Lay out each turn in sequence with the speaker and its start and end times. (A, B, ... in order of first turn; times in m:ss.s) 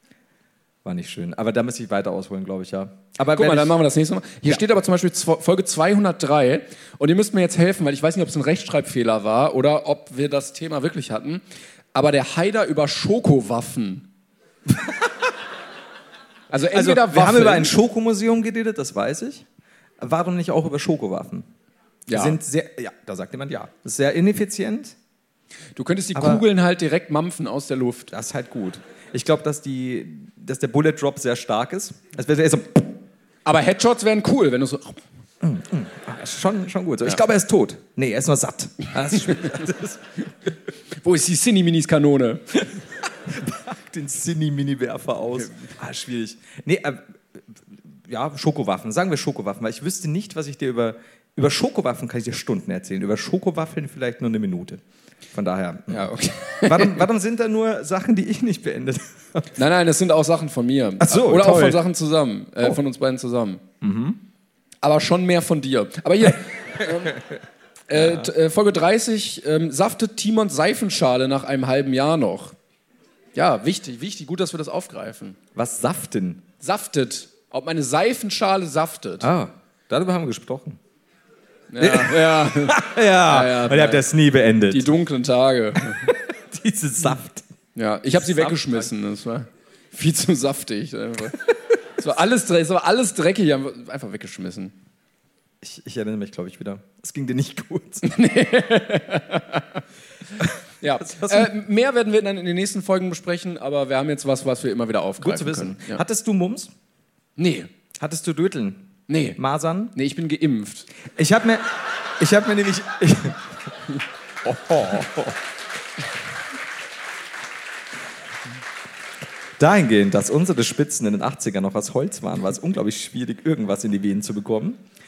0:00.8-0:03.8 A
0:03.3-0:11.4 B
0:11.9-0:14.1 B
0:16.5-0:17.7 B
0:16.7-0:19.4 A
0:20.0-0:21.5 A
0:22.1-0:22.4 B
0:22.1-0:25.0 A
0:25.8-0:28.1 B
0:26.1-0:26.4 A
0:28.1-0:33.0 A
0:33.4-0:35.0 B
0:35.4-0:40.0 A
0:41.0-0:42.6 B
0:43.2-0:54.8 A
0:55.3-0:59.6 A
0:55.9-0:57.0 B
0:59.6-1:03.6 B
1:01.0-1:01.8 A
1:03.8-1:04.2 A
1:04.8-1:07.2 B
1:07.9-1:12.5 B
1:07.9-1:08.3 A
1:13.3-1:15.4 B
1:15.5-1:16.4 A
1:16.6-1:19.3 B
1:19.2-1:20.8 A
1:21.7-1:24.0 B
1:21.8-1:24.9 A
1:24.7-1:26.1 B
1:25.9-1:27.5 A
1:27.8-1:34.7 B
1:28.1-1:28.9 A
1:35.6-1:38.1 A
1:38.0-1:39.8 B
1:40.4-1:41.5 A
1:40.8-1:46.0 B
1:45.2-1:46.7 A
1:47.4-1:47.7 B
1:48.0-1:49.9 A
1:49.1-1:49.4 B
1:49.9-1:50.9 B
1:51.1-1:53.7 A
1:54.4-1:55.4 A
1:59.6-2:04.8 A